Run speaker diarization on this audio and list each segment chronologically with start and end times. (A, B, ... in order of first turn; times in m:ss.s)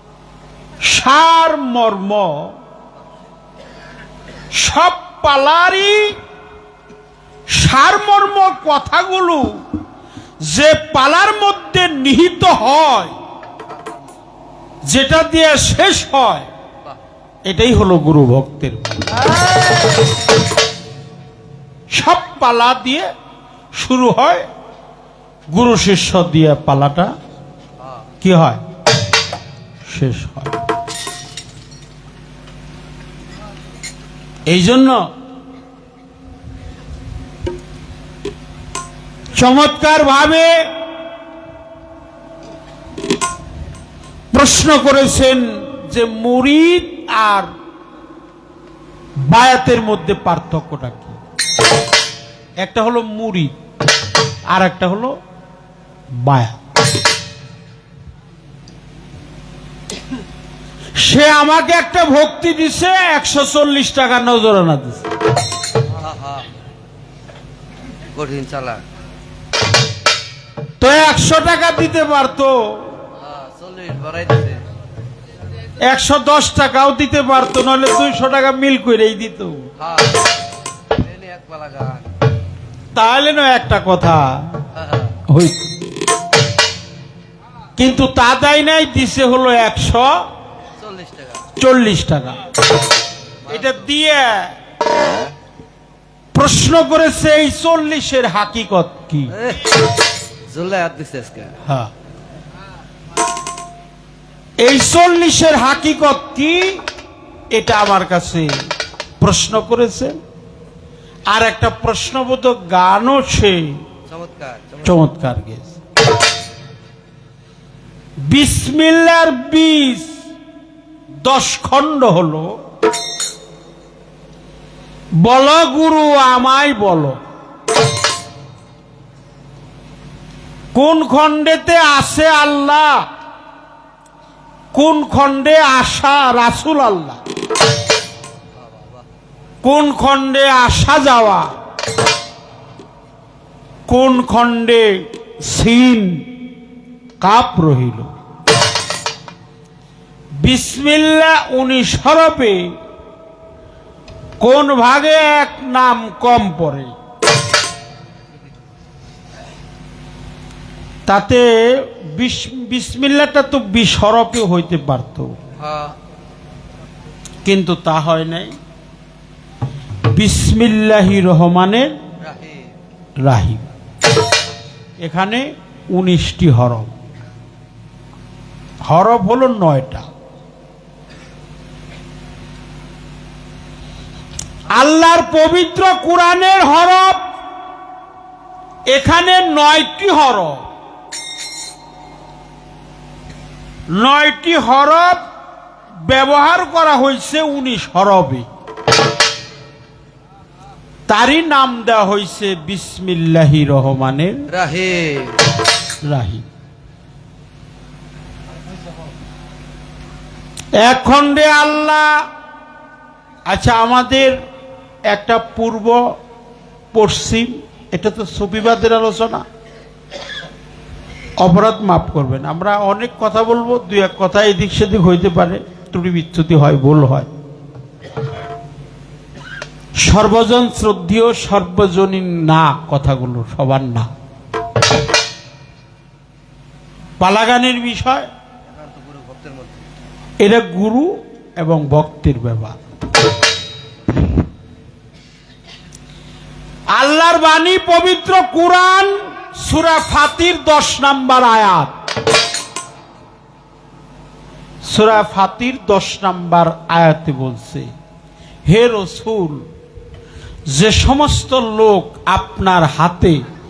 0:00.8-0:02.6 A
0:04.5-0:06.2 A
0:07.5-0:09.6 A
0:10.5-0:13.1 A
0:13.7-0:14.1 B
0:14.9-0:16.5 A
0:17.5-0:19.3 A
0:19.4-0:19.8 B
0:21.9-0:23.1 A
0:23.8-0:24.5 A
0:25.5-0:27.1 A
0:28.2-0:28.6 A
0:29.9-0:30.6 A
0:34.5-0:35.0 A
0:39.3-0:40.6 A
0:44.3-0:47.5 A
0:49.2-0:51.2 A
0:52.6-0:53.5 A
0:54.5-0:55.2 A
0:56.1-0:56.6 A
1:01.0-1:05.1 A
1:05.9-1:06.5 B
1:08.1-1:08.8 B
1:10.8-1:12.9 A
1:13.2-1:14.6 B
1:15.8-1:19.7 A
1:19.8-1:20.4 B
1:20.9-1:22.1 B
1:22.9-1:24.6 A
1:24.8-1:25.1 B
1:25.3-1:25.7 A
1:27.8-1:30.1 A
1:30.8-1:31.5 B
1:31.6-1:32.4 A
1:33.4-1:33.9 B
1:33.5-1:34.6 A
1:36.3-1:39.4 A
1:39.3-1:39.7 B
1:40.5-1:41.6 B
1:41.6-1:41.9 A
1:44.6-1:46.8 A
1:47.5-1:48.5 A
1:49.2-1:50.1 A
1:51.3-1:53.8 A
1:54.1-1:55.0 B
1:54.8-1:55.8 A
1:58.2-2:00.1 A
2:01.2-2:02.6 A
2:05.2-2:07.2 A
2:10.7-2:13.0 A
2:14.7-2:17.2 A
2:18.6-2:19.0 B
2:19.6-2:21.5 A
2:23.9-2:26.3 A
2:27.2-2:28.1 A
2:30.4-2:32.7 A
2:34.4-2:36.9 A
2:41.1-2:45.3 A
2:45.6-2:46.0 B
2:47.4-2:48.6 A
2:50.1-2:52.0 A
2:52.2-2:52.7 B
2:53.2-2:53.6 A
2:55.0-2:56.9 A
2:58.9-3:00.1 A
3:04.7-3:07.3 A
3:08.9-3:10.7 A
3:13.9-3:15.2 A
3:16.0-3:18.5 A
3:21.1-3:24.5 A
3:24.5-3:25.5 B
3:26.0-3:26.4 A
3:30.8-3:32.2 A
3:33.5-3:34.4 A
3:35.1-3:36.0 A
3:36.9-3:39.4 A
3:41.4-3:47.3 A
3:50.0-3:54.1 A
3:57.2-3:58.3 A
3:58.7-3:59.9 B
4:00.4-4:02.8 A
4:06.9-4:11.9 A
4:14.9-4:17.9 A
4:18.7-4:19.7 A
4:20.7-4:23.4 A